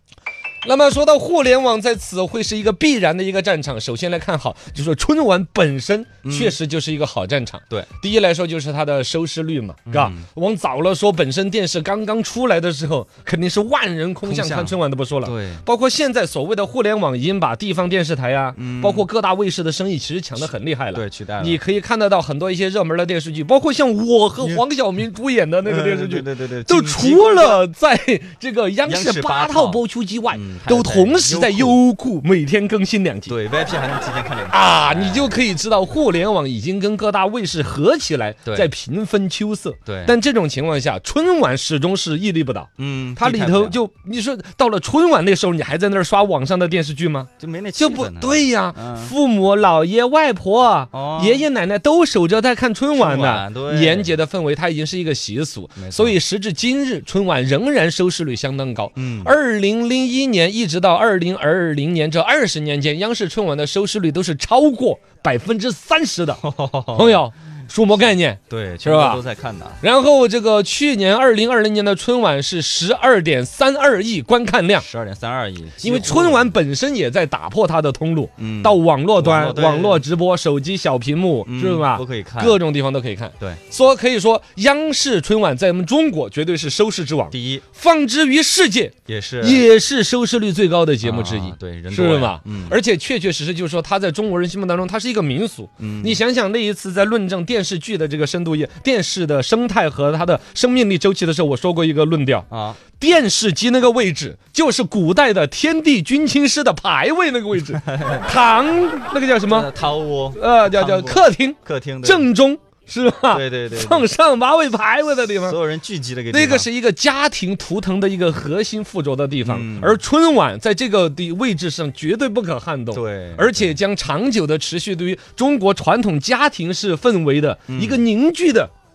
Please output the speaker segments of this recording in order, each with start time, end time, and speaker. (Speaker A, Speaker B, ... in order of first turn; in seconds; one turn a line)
Speaker A: 0.6-33.4
Speaker B: 6.2-6.6
Speaker B: 9.8-10.3
Speaker B: 14.2-15.6
Speaker B: 18.5-19.1
Speaker B: 20.9-21.6
Speaker B: 25.6-27.6
Speaker B: 28.8-31.8
Speaker B: 33.3-35.4
Speaker A: 34.5-66.4
Speaker B: 39.9-40.1
Speaker B: 42.8-43.8
Speaker B: 47.4-49.1
Speaker B: 50.9-51.5
Speaker B: 52.9-54.2
Speaker B: 55.8-56.2
Speaker B: 59.0-59.4
Speaker B: 66.4-67.2
Speaker A: 66.9-69.2
Speaker B: 68.5-69.8
Speaker A: 69.8-74.8
Speaker B: 74.8-76.6
Speaker A: 75.8-109.7
Speaker B: 78.4-80.1
Speaker B: 81.4-82.6
Speaker B: 87.3-87.7
Speaker B: 89.0-89.7
Speaker B: 91.0-92.8
Speaker B: 95.8-96.2
Speaker B: 102.5-102.8
Speaker B: 107.7-108.3
Speaker B: 109.4-112.3
Speaker A: 110.3-115.6
Speaker B: 113.3-114.1
Speaker B: 115.3-116.7
Speaker A: 116.3-128.7
Speaker B: 119.4-120.0
Speaker B: 122.9-123.7
Speaker B: 127.7-128.0